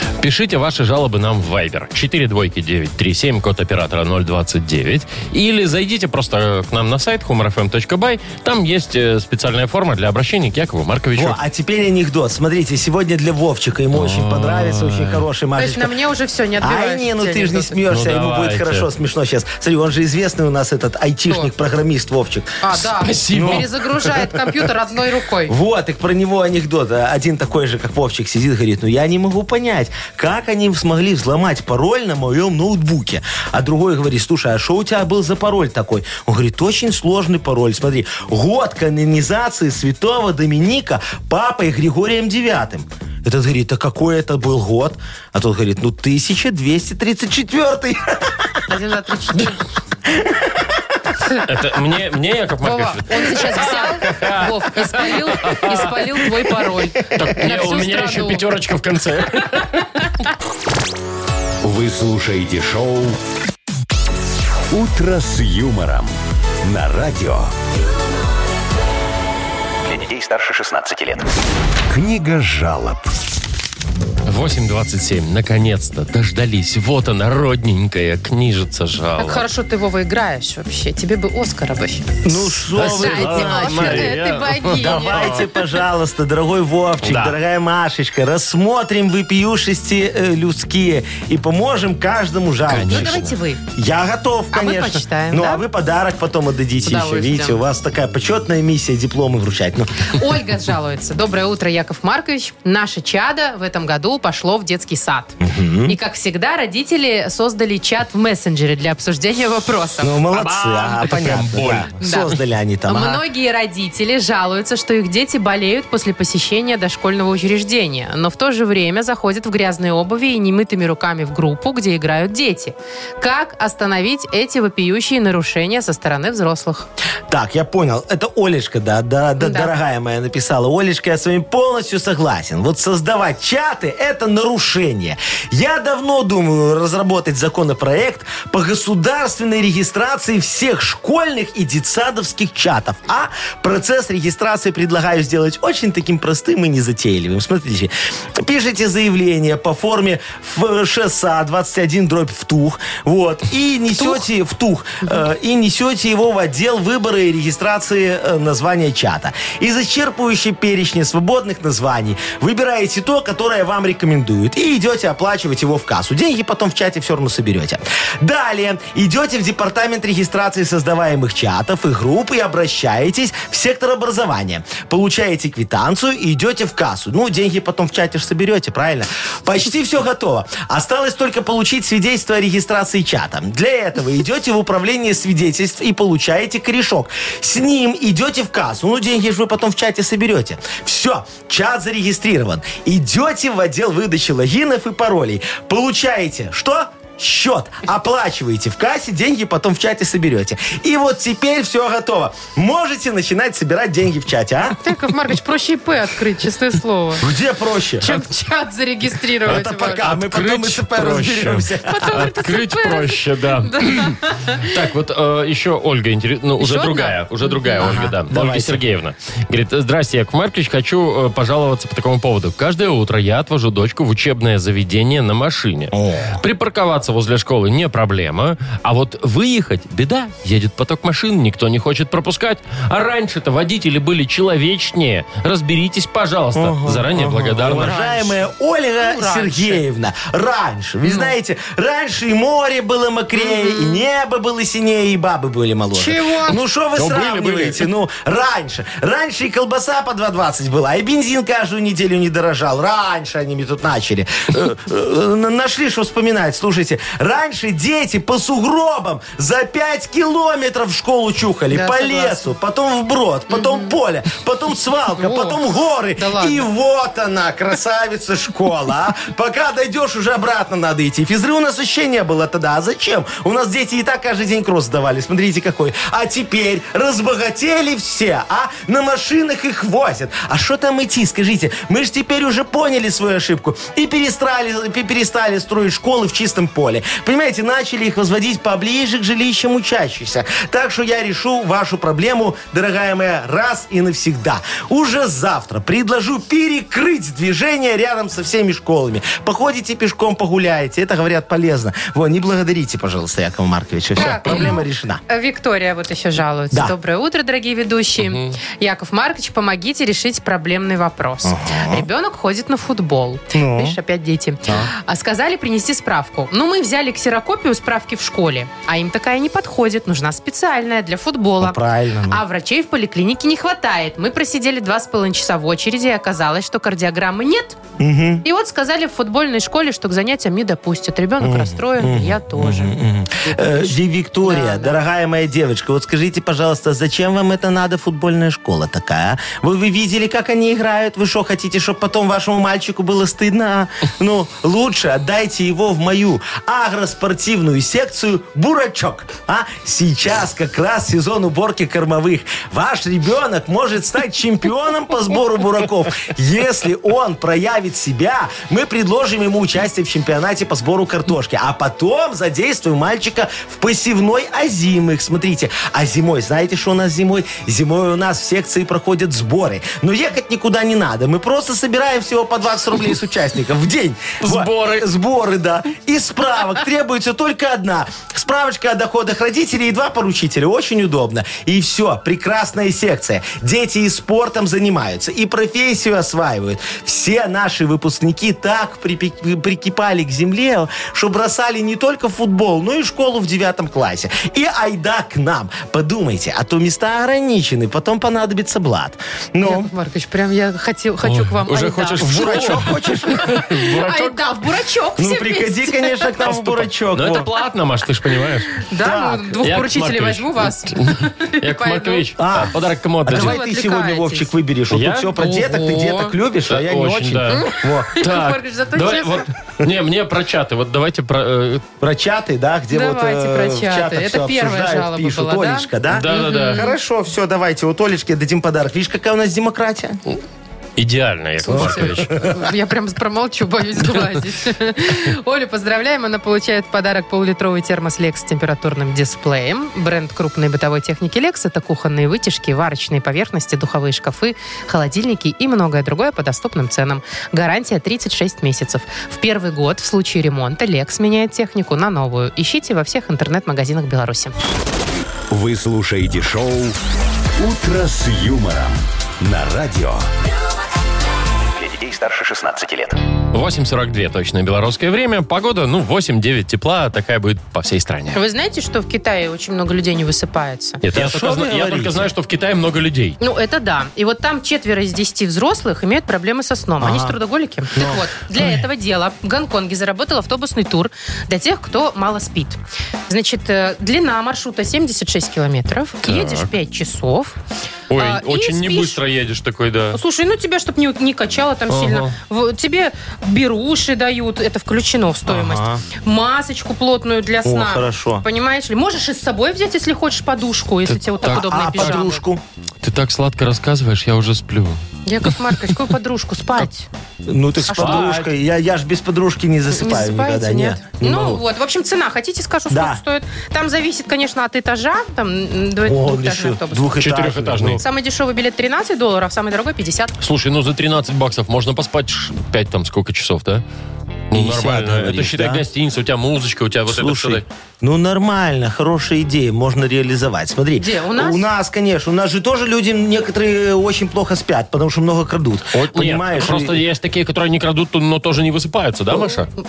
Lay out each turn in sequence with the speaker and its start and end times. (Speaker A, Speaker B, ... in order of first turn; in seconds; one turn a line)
Speaker A: 0.2-11.4
Speaker B: 11.1-15.9
Speaker A: 13.9-15.2
Speaker C: 15.6-17.8
Speaker B: 16.6-22.6
Speaker A: 17.9-18.9
Speaker C: 22.6-25.5
Speaker A: 22.9-23.7
Speaker B: 23.3-23.7
Speaker B: 25.5-48.5
Speaker C: 48.7-49.6
Speaker B: 50.1-50.6
Speaker A: 51.4-56.6
Speaker C: 52.6-58.4
Speaker A: 57.1-59.9
Speaker D: 61.6-63.2
Speaker D: 64.7-66.1
Speaker D: 66.6-67.5
Speaker E: 69.8-71.3
Speaker D: 71.9-73.1
Speaker A: 74.2-79.5
Speaker C: 79.2-85.4
Speaker B: 82.2-100.1
Speaker A: 82.7-85.5
Speaker A: 87.0-87.3
Speaker A: 92.7-93.3
Speaker C: 92.9-93.6
Speaker C: 94.5-95.6
Speaker C: 96.8-97.6
Speaker C: 100.1-110.2
Speaker B: 105.4-106.0
Speaker B: 110.0-113.2
Speaker A: 110.3-111.9
Speaker C: 112.0-112.3
Speaker C: 112.8-126.9
Speaker B: 127.3-204.8
Speaker C: 129.4-129.7
Speaker C: 154.0-154.2
Speaker C: 204.8-207.2
Speaker B: 207.2-208.2
Speaker C: 208.0-210.0
Speaker B: 209.4-212.3
Speaker A: 209.5-238.1
Speaker C: 211.8-214.7
Speaker C: 216.6-218.1
Speaker B: 217.8-218.8
Speaker B: 225.9-226.4
Speaker B: 236.5-305.2
Speaker C: 237.7-238.3
Speaker C: 239.0-239.8
Speaker C: 241.0-241.3
Speaker C: 243.3-244.0
Speaker C: 245.9-246.6
Speaker A: 246.9-247.8
Speaker C: 261.7-262.5
Speaker C: 263.5-263.9
Speaker C: 265.1-265.6
Speaker C: 266.2-266.7
Speaker C: 304.1-327.8
Speaker A: 308.2-308.6
Speaker B: 311.4-312.1
Speaker B: 313.5-314.0
Speaker B: 321.6-322.4
Speaker B: 328.0-328.4
Speaker C: 328.4-335.0
Speaker B: 331.4-399.9
Speaker A: 374.4-375.1
Speaker C: 399.6-406.4
Speaker A: 401.2-404.4
Speaker B: 402.2-403.6
Speaker B: 405.2-407.5
Speaker A: 406.4-408.8
Speaker C: 408.8-412.3
Speaker B: 409.0-409.6
Speaker A: 409.6-413.6
Speaker B: 412.4-418.2
Speaker C: 413.3-414.5
Speaker A: 414.9-415.4
Speaker C: 415.4-416.3
Speaker A: 416.7-421.8
Speaker C: 417.5-419.4
Speaker B: 422.0-430.2
Speaker C: 422.9-426.9
Speaker A: 426.1-426.9
Speaker A: 431.0-432.3
Speaker C: 431.6-454.5
Speaker B: 431.7-432.6
Speaker D: 455.5-457.0
Speaker D: 457.6-460.2
Speaker E: 461.7-463.2
Speaker A: 463.5-468.4
Speaker C: 468.3-471.0
Speaker A: 471.0-473.4
Speaker B: 471.1-472.3
Speaker C: 473.4-487.6
Speaker B: 477.0-477.4
Speaker B: 477.9-478.2
Speaker A: 486.2-486.7
Speaker A: 488.1-490.2
Speaker C: 488.1-489.2
Speaker C: 490.1-502.4
Speaker A: 491.9-492.3
Speaker B: 495.5-496.0
Speaker B: 497.6-498.4
Speaker A: 501.1-502.2
Speaker B: 501.4-502.6
Speaker A: 503.0-505.7
Speaker C: 505.2-507.1
Speaker B: 507.4-511.6
Speaker C: 507.9-508.3
Speaker A: 507.9-508.5
Speaker C: 509.9-517.1
Speaker B: 512.9-513.2
Speaker B: 516.0-518.0
Speaker A: 517.2-518.0
Speaker C: 518.0-520.3
Speaker A: 520.4-523.8
Speaker A: 524.5-527.6
Speaker B: 524.5-525.8
Speaker B: 527.1-537.0
Speaker C: 531.0-531.6
Speaker A: 535.9-539.7